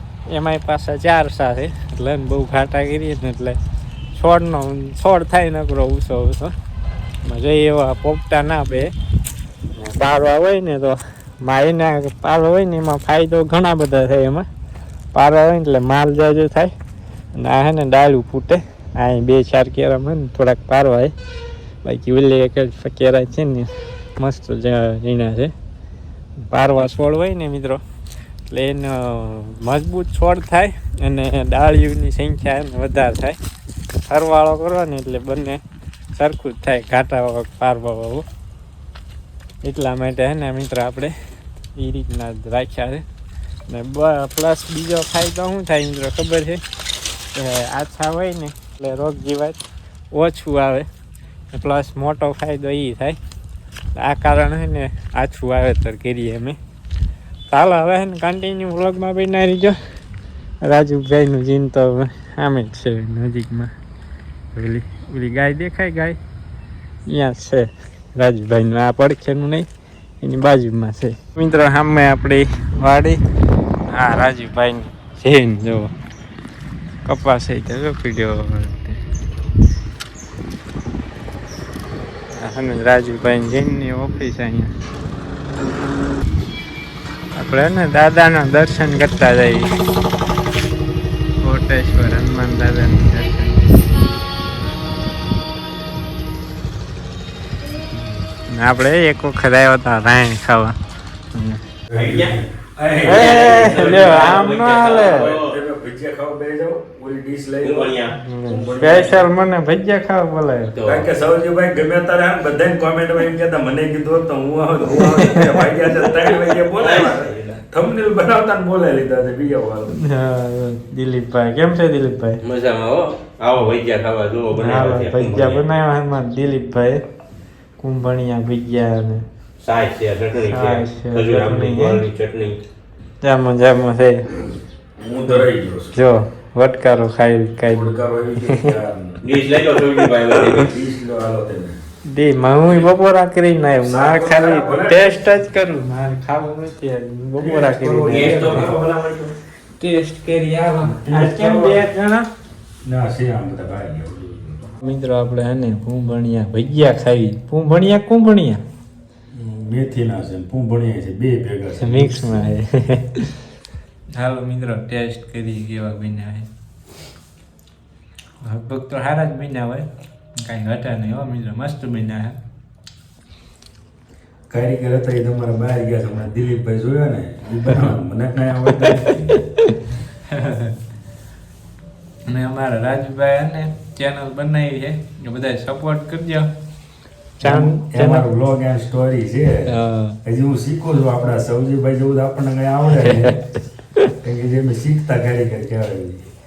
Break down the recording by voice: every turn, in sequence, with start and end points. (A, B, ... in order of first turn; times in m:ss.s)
0:00.3-0:03.6 A
0:04.2-0:06.5 A
0:07.2-0:08.9 A
0:09.7-0:14.4 A
0:15.1-0:16.7 A
0:17.3-0:21.1 A
0:21.8-0:25.5 A
0:26.5-0:27.8 A
0:28.5-0:33.4 A
0:34.1-0:35.6 A
0:36.1-0:38.2 A
0:39.6-0:41.1 A
0:41.7-0:43.0 A
0:43.7-0:46.6 A
0:47.3-0:49.6 A
0:50.1-0:50.9 A
0:51.5-0:53.2 A
0:54.0-0:56.6 A
0:57.5-0:59.8 A
1:00.6-1:03.7 A
1:04.5-1:06.2 A
1:07.0-1:09.6 A
1:10.2-1:13.2 A
1:13.9-1:15.9 A
1:17.0-1:19.0 A
1:22.3-1:24.7 A
1:27.4-1:29.7 A
1:31.4-1:33.9 A
1:38.0-1:40.8 A
1:41.3-1:41.6 A
1:41.9-1:49.2 B
1:42.0-1:42.4 C
1:43.0-1:45.6 C
1:43.0-1:45.3 A
1:47.6-1:48.2 C
1:48.2-1:50.7 A
1:50.7-1:51.1 C
1:50.8-2:00.0 B
1:55.0-1:55.9 A
1:56.8-1:57.6 C
2:00.0-2:02.4 A
2:02.4-2:05.6 C
2:04.5-2:07.0 A
2:07.8-2:09.2 A
2:09.6-2:12.6 C
2:10.5-2:12.0 A
2:13.2-2:14.2 A
2:15.0-2:15.9 B
2:15.2-2:17.9 A
2:17.6-2:19.3 B
2:18.5-2:18.7 A
2:19.2-2:20.7 C
2:20.3-2:21.8 B
2:22.1-2:28.8 A
2:23.8-2:25.2 B
2:27.4-2:29.1 B
2:28.1-2:29.0 C
2:29.8-2:32.3 A
2:30.8-2:31.9 B
2:32.8-2:34.7 B
2:34.8-2:38.6 A
2:39.3-2:42.6 B
2:41.8-2:43.3 A
2:44.1-2:46.5 A
2:48.4-2:52.4 A
2:54.5-2:59.4 B
2:58.6-3:00.8 A
3:02.2-3:06.5 A
3:07.4-3:08.3 A
3:07.4-3:13.4 B
3:09.7-3:10.2 A
3:13.0-3:13.4 A
3:14.2-3:16.3 B